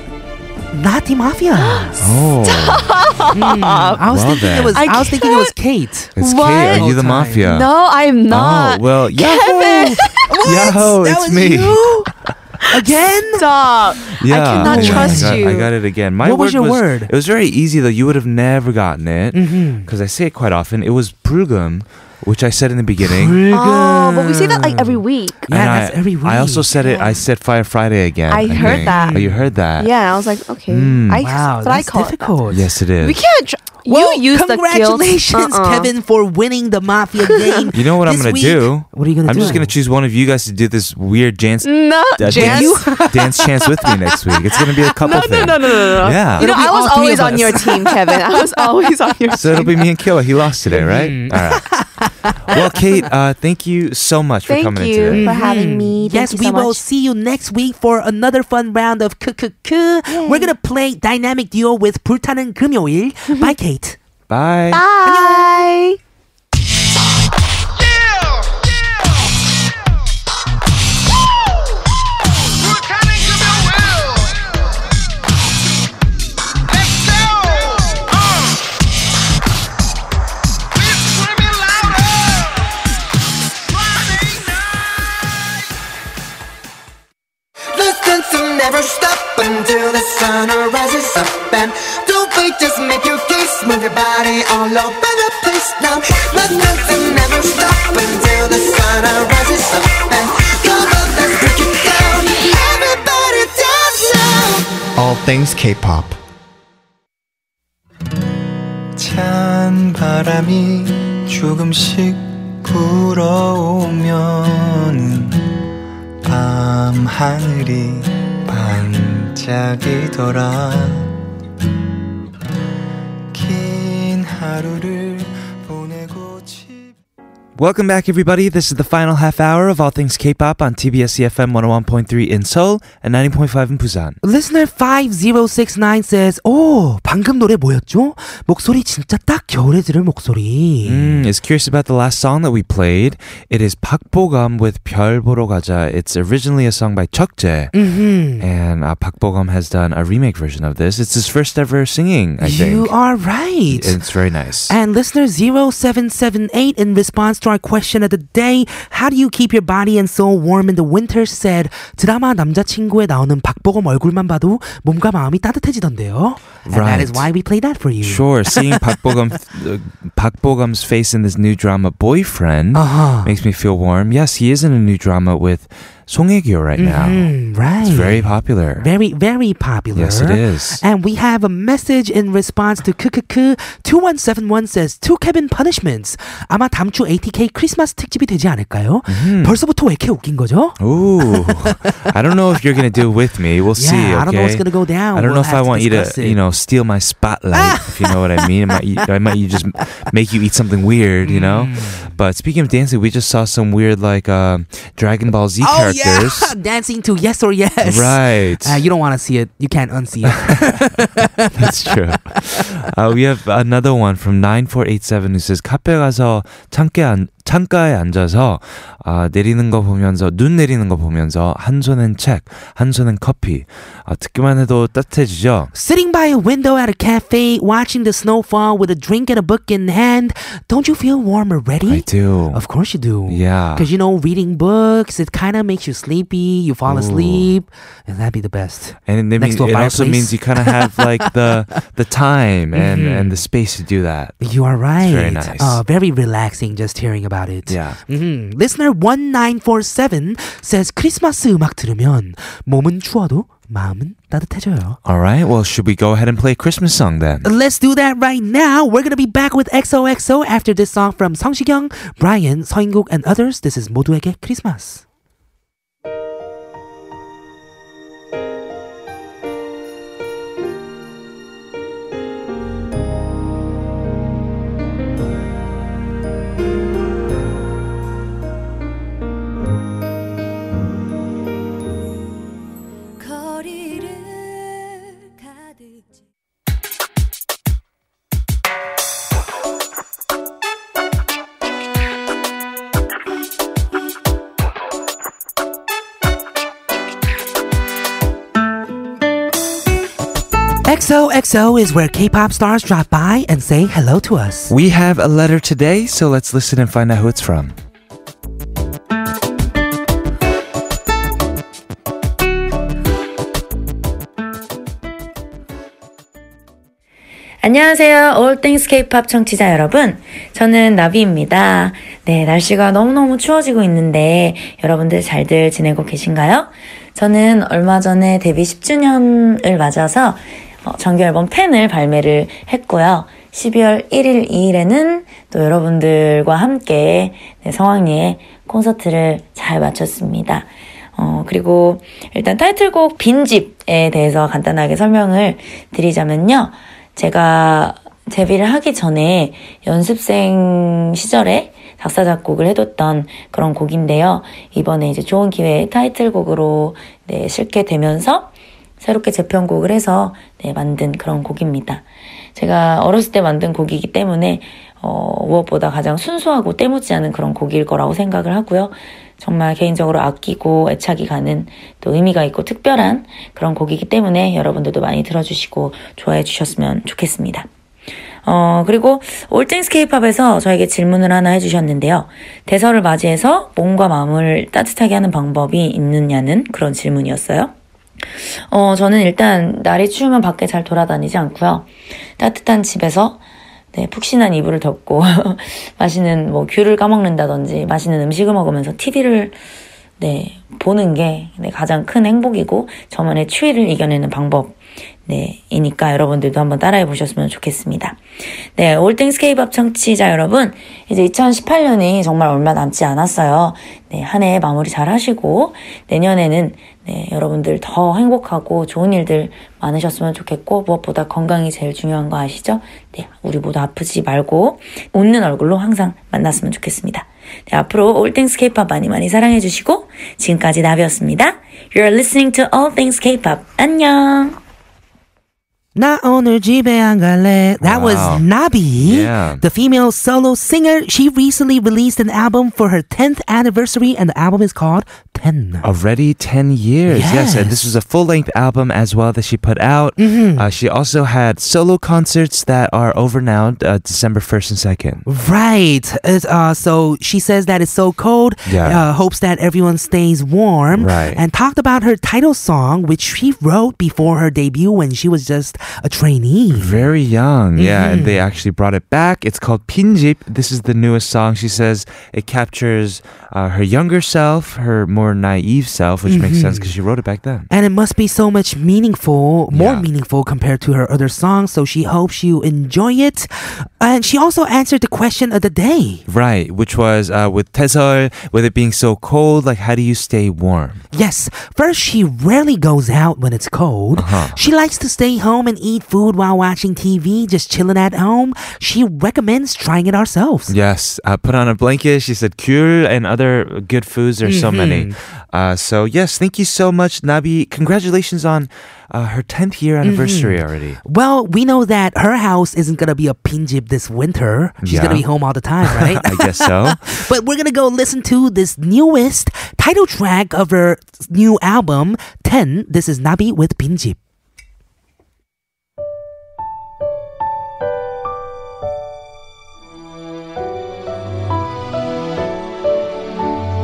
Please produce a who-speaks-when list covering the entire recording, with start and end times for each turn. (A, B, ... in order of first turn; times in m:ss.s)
0:00.7-0:02.1 A
0:01.6-0:04.0 B
0:02.0-0:03.0 C
0:03.3-0:06.2 A
0:04.1-0:04.9 C
0:04.7-0:05.5 B
0:06.2-0:06.9 B
0:06.2-0:07.7 C
0:06.7-0:07.5 A
0:07.4-0:10.3 B
0:08.3-0:11.9 C
0:09.7-0:12.1 A
0:12.7-0:13.6 A
0:13.3-0:15.7 B
0:14.0-0:23.4 C
0:14.6-0:15.5 A
0:16.2-0:17.1 A
0:19.3-0:19.9 A
0:23.0-0:26.7 A
0:23.5-0:25.5 B
0:25.5-0:29.9 C
0:26.8-0:27.2 B
0:28.3-0:29.2 B
0:28.5-0:29.5 A
0:29.8-0:32.3 B
0:30.7-0:31.3 C
0:31.2-0:32.7 A
0:32.5-0:33.2 C
0:33.0-0:35.9 B
0:33.8-0:39.8 A
0:37.2-0:37.7 B
0:37.7-0:46.5 C
0:41.6-0:43.1 B
0:42.3-0:48.6 A
0:45.0-0:49.8 B
0:49.3-0:51.7 C
0:50.7-0:52.7 A
0:52.5-0:55.3 C
0:54.5-0:56.8 B
0:55.1-1:04.0 A
1:00.1-1:00.5 B
1:04.3-1:04.8 C
1:04.7-1:06.0 B
1:05.0-1:05.6 A
1:27.8-1:46.1 D
1:49.0-1:55.4 D
1:56.2-2:01.1 D
2:03.3-2:07.0 D
2:07.6-2:14.2 C
2:14.2-2:21.3 A
2:20.8-2:27.8 C
2:27.7-2:28.5 A
2:28.4-2:32.9 C
2:32.4-2:34.0 A
2:33.7-2:34.8 C
2:34.7-2:49.2 A
2:46.7-2:47.3 C
2:48.0-2:57.3 C
2:52.7-2:53.4 A
2:56.8-3:11.7 A
2:57.8-2:58.9 C
2:59.9-3:00.8 C
3:09.1-3:09.6 C
3:10.8-3:26.6 C
3:13.8-3:16.4 A
3:17.5-3:18.8 A
3:21.2-3:22.2 A
3:25.6-3:32.6 A
3:27.8-3:28.8 C
3:30.3-3:30.7 C
3:31.5-3:45.7 C
3:45.7-4:01.6 A
3:51.9-3:52.6 C
3:53.3-3:53.9 C
3:56.9-3:57.5 C
3:59.1-4:04.4 C
4:02.7-4:03.5 A
4:04.4-4:15.0 A
4:05.0-4:05.8 C
4:07.7-4:08.0 C
4:15.1-4:17.5 C
4:17.4-4:25.0 A
5:00.8-5:04.8 A
5:04.7-5:07.8 C
5:17.6-6:17.7 E
6:18.4-6:27.7 E
6:28.7-6:39.6 E
6:40.2-6:48.2 E
6:48.8-7:14.6 E
7:16.0-7:25.9 A
7:17.8-7:18.4 C
7:19.0-7:19.6 C
7:25.8-7:35.2 C
7:27.1-7:28.0 A
7:30.2-7:30.7 A
7:35.3-7:47.1 A
7:38.6-7:39.0 C
7:40.9-7:41.4 C
7:46.7-7:57.7 C
7:47.8-7:48.4 A
7:56.3-7:56.9 A
7:57.7-8:06.2 A
7:59.7-8:00.1 C
8:06.3-8:11.0 C
8:11.1-8:20.8 A
8:14.2-8:14.6 C
8:20.7-8:31.0 C
8:24.4-8:25.2 A
8:30.0-8:44.2 A
8:34.8-8:35.2 C
8:35.8-8:37.2 C